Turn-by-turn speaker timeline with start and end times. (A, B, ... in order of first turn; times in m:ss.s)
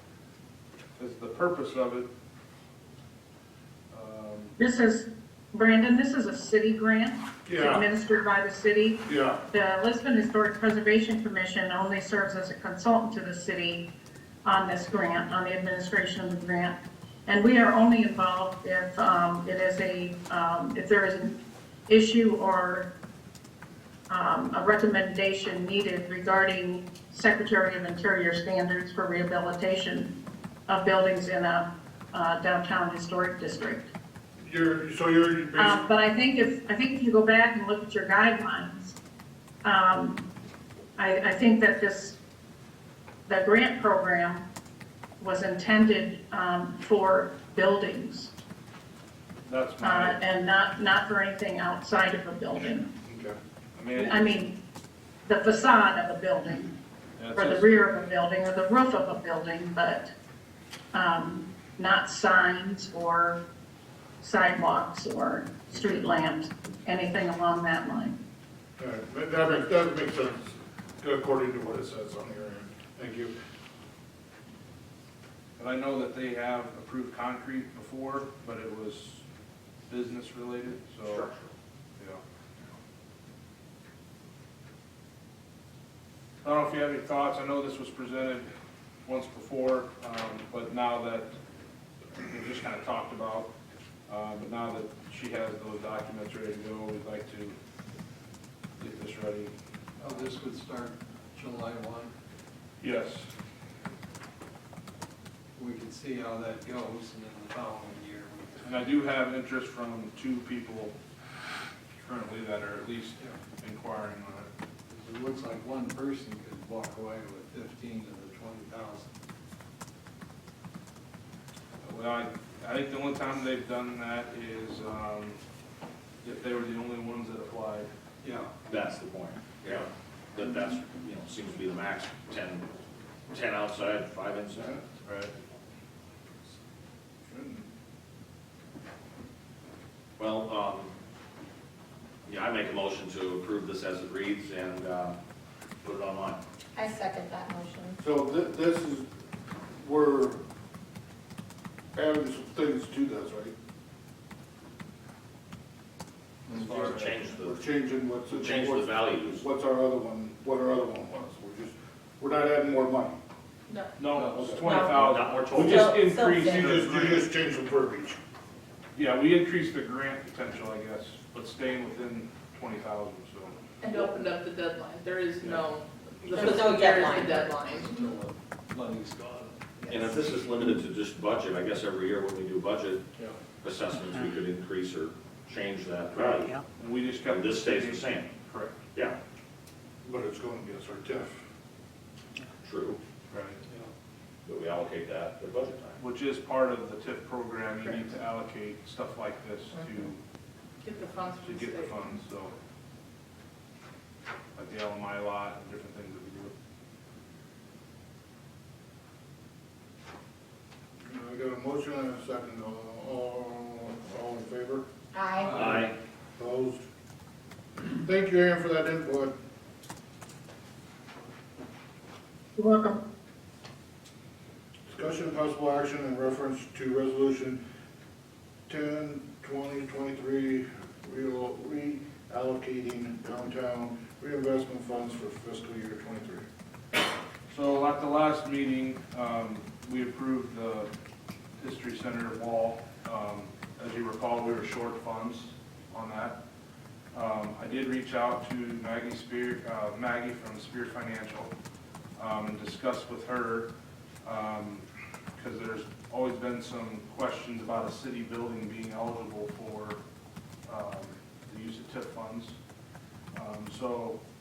0:01.0-0:02.1 A
0:03.9-0:04.6 A
0:04.6-0:09.0 B
0:07.4-0:07.9 C
0:09.0-0:09.4 C
0:09.5-0:13.9 B
0:14.4-0:21.3 B
0:21.9-0:22.9 B
0:24.1-0:30.1 B
0:30.7-0:33.9 B
0:34.4-0:35.8 C
0:35.6-0:39.0 B
0:39.6-0:40.2 B
0:41.0-0:42.2 B
0:43.3-0:44.5 B
0:45.2-0:48.3 B
0:49.5-0:50.2 A
0:49.8-0:52.9 B
0:53.1-0:53.4 C
0:53.8-0:54.4 A
0:54.0-0:54.6 B
0:55.2-0:56.7 B
0:57.2-0:57.7 A
0:57.4-1:00.1 B
1:00.9-1:03.4 B
1:04.2-1:08.2 B
1:08.8-1:13.4 C
1:15.6-1:19.2 A
1:19.9-1:21.3 A
1:21.1-1:21.5 D
1:26.4-1:28.5 A
1:29.0-1:31.3 A
1:32.3-1:33.5 A
1:34.1-1:37.6 A
1:38.8-1:39.5 A
1:40.0-1:42.1 E
1:42.8-1:43.3 A
1:45.6-1:48.9 E
1:48.7-1:50.9 A
1:52.0-1:54.5 A
1:54.9-1:59.1 E
2:01.8-2:05.4 A
2:06.2-2:07.9 A
2:08.2-2:08.5 E
2:08.7-2:12.6 D
2:13.3-2:14.8 D
2:15.0-2:15.3 A
2:17.3-2:17.7 C
2:20.2-2:20.9 D
2:22.3-2:25.2 D
2:25.8-2:26.4 D
2:26.8-2:28.0 F
2:28.0-2:29.1 C
2:29.8-2:30.4 C
2:32.0-2:33.5 C
2:36.5-2:36.9 E
2:36.5-2:37.6 D
2:36.6-2:37.1 A
2:37.3-2:43.2 C
2:38.3-2:39.4 D
2:43.7-2:44.0 G
2:44.0-2:47.2 A
2:44.1-2:44.5 E
2:44.8-2:46.0 D
2:45.6-2:46.6 F
2:46.5-2:48.2 C
2:49.0-2:53.6 A
2:53.8-2:58.0 G
2:56.3-2:57.5 F
2:57.6-3:00.3 E
2:59.9-3:03.0 D
3:03.6-3:06.6 D
3:06.2-3:08.8 A
3:07.3-3:08.3 D
3:10.0-3:11.4 C
3:12.6-3:13.0 D
3:13.3-3:13.6 A
3:14.5-3:16.0 D
3:16.0-3:20.2 A
3:20.8-3:22.1 G
3:21.4-3:22.5 A
3:24.6-3:26.5 A
3:31.1-3:34.8 C
3:35.1-3:35.5 F
3:35.5-3:35.9 E
3:35.5-3:35.9 D
3:36.4-3:36.8 C
3:37.9-3:39.4 C
3:42.6-3:43.0 B
3:44.9-3:47.6 C
3:48.7-3:56.5 C
3:57.5-4:00.9 A
4:01.6-4:06.4 A
4:07.1-4:11.5 A
4:12.2-4:13.7 A
4:14.2-4:20.0 A
4:20.7-4:22.6 A
4:23.3-4:24.2 A